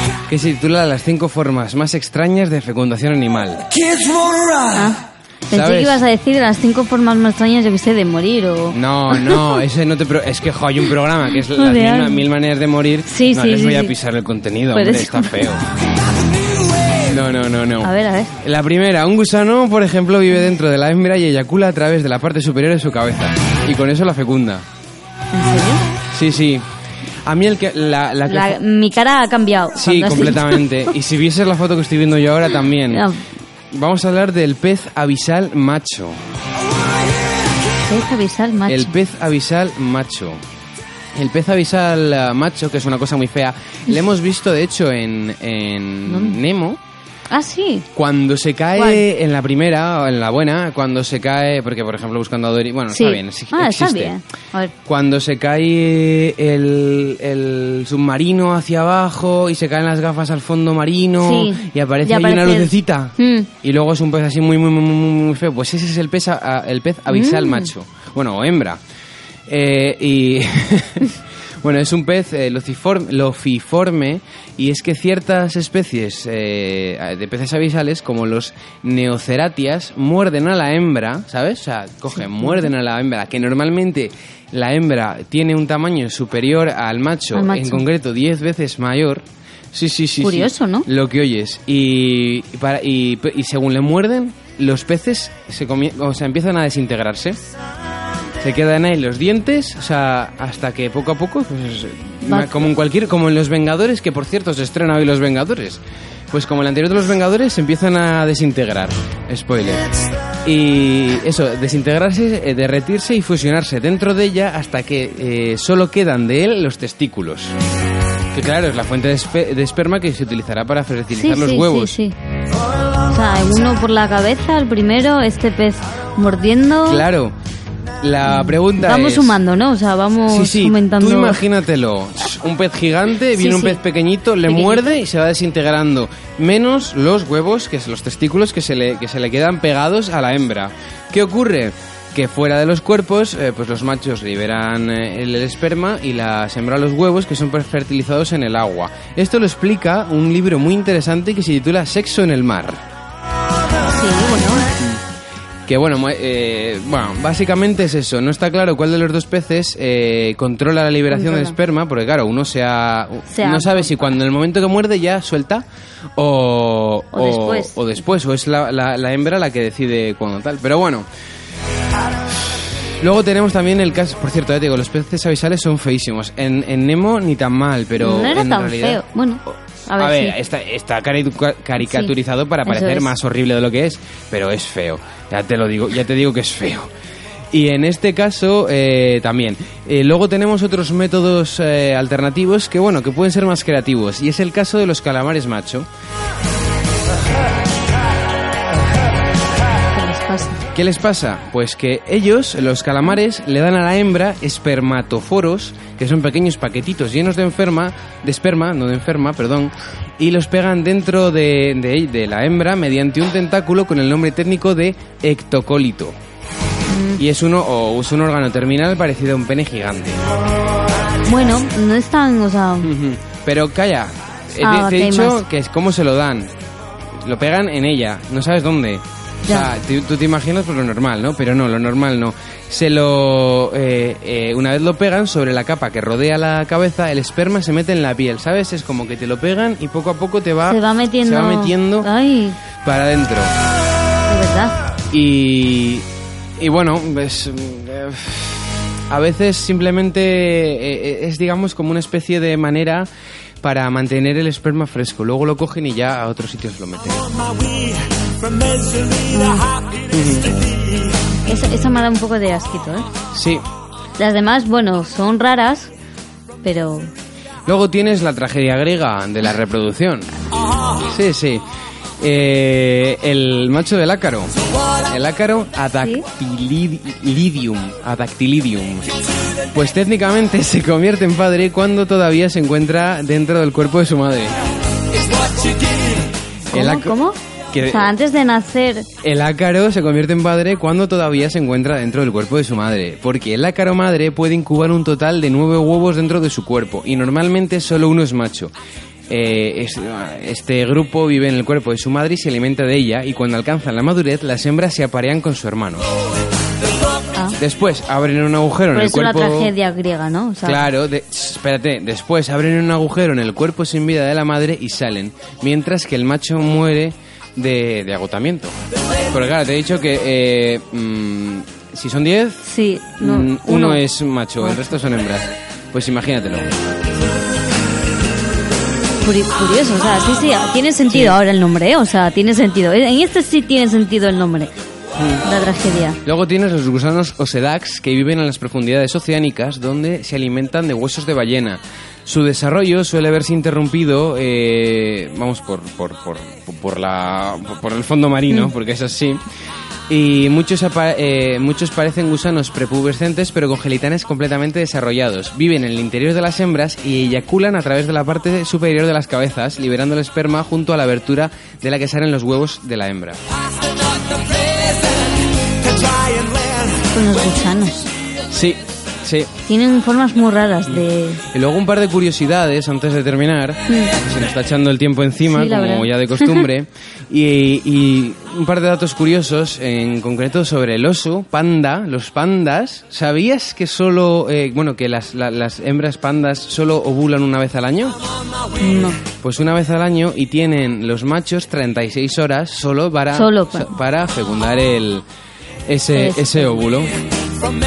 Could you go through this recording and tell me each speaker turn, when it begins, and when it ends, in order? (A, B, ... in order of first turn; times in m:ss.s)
0:00.3-0:03.6 A
0:04.7-0:09.6 B
0:05.5-0:06.0 A
0:08.7-0:15.7 A
0:11.4-0:12.3 B
0:13.1-0:13.9 B
0:14.7-0:15.5 B
0:17.0-0:24.6 A
0:17.8-0:18.4 B
0:25.3-0:25.9 B
0:26.1-0:26.6 A
0:27.2-0:28.6 A
0:28.3-0:30.6 B
0:29.8-0:33.1 A
0:32.9-0:33.2 B
0:33.7-0:36.2 A
0:37.8-0:39.0 B
0:38.7-0:40.4 A
0:41.1-0:46.8 A
0:46.1-0:46.4 B
0:47.3-0:47.9 B
0:48.0-0:54.2 A
0:48.8-0:49.0 B
0:52.9-0:54.7 B
0:54.8-1:08.8 A
1:01.2-1:03.5 B
1:07.1-1:07.7 B
1:09.5-1:37.4 A
1:22.1-1:22.7 B
1:27.3-1:27.8 B
1:30.2-1:30.9 B
1:38.4-1:49.9 A
1:42.2-1:42.7 B
1:50.4-1:57.5 A
1:58.3-2:02.0 A
2:01.1-2:02.2 B
2:03.0-2:07.1 B
2:06.9-2:07.4 A
2:08.0-2:09.4 A
2:08.2-2:11.4 B
2:10.3-2:32.8 A
2:13.3-2:13.8 B
2:14.4-2:14.8 B
2:33.8-2:34.7 B
2:35.7-2:45.6 A
2:41.1-2:41.6 B
2:43.3-2:44.1 B
2:46.2-2:51.1 A
2:47.1-2:47.9 B
2:52.3-3:06.9 A
2:58.0-3:00.4 B
3:01.8-3:02.1 B
3:02.6-3:03.1 B
3:07.5-3:15.9 A
3:19.9-3:20.6 B
3:20.7-3:36.2 A
3:36.9-3:37.2 B
3:37.2-3:40.2 A
3:41.2-3:42.9 B
3:42.8-3:46.6 A
3:44.6-3:45.4 B
3:47.2-4:02.1 A
3:49.5-3:49.7 B
4:00.6-4:02.6 B
4:02.8-4:03.5 A
4:04.3-4:04.8 B
4:05.1-4:06.1 A
4:06.6-4:13.1 A
4:13.6-4:17.3 A
4:19.3-4:19.7 B
4:20.1-4:20.6 A
4:21.5-4:23.1 B
4:23.3-4:23.6 A
4:24.2-4:25.9 B
4:26.6-4:27.1 B
4:27.7-4:30.3 A
4:31.1-4:31.6 A
4:32.2-4:39.1 A
4:39.7-4:44.6 A
4:46.7-4:47.2 A
4:46.7-4:49.1 B
4:47.7-4:48.1 A
4:49.2-4:58.7 A
4:59.3-5:06.0 A
5:07.6-5:09.7 A
5:08.9-5:10.9 B
5:10.6-5:18.8 A
5:19.3-5:22.7 A
5:22.6-5:24.0 B
5:23.2-5:26.7 A
5:24.6-5:24.9 B
5:29.2-5:34.7 B
5:31.1-5:31.4 A
5:35.2-5:35.4 A
5:35.4-5:36.2 B
5:36.2-5:49.4 A
5:50.1-6:03.4 A
6:07.1-6:08.1 B
6:08.5-6:09.5 A
6:09.7-6:11.4 B
6:10.9-6:28.2 A
6:13.9-6:14.1 B
6:15.4-6:16.7 B
6:28.8-6:29.2 B
6:29.4-6:35.3 A
6:33.3-6:34.0 B
6:35.9-6:37.1 A
6:36.1-6:36.8 B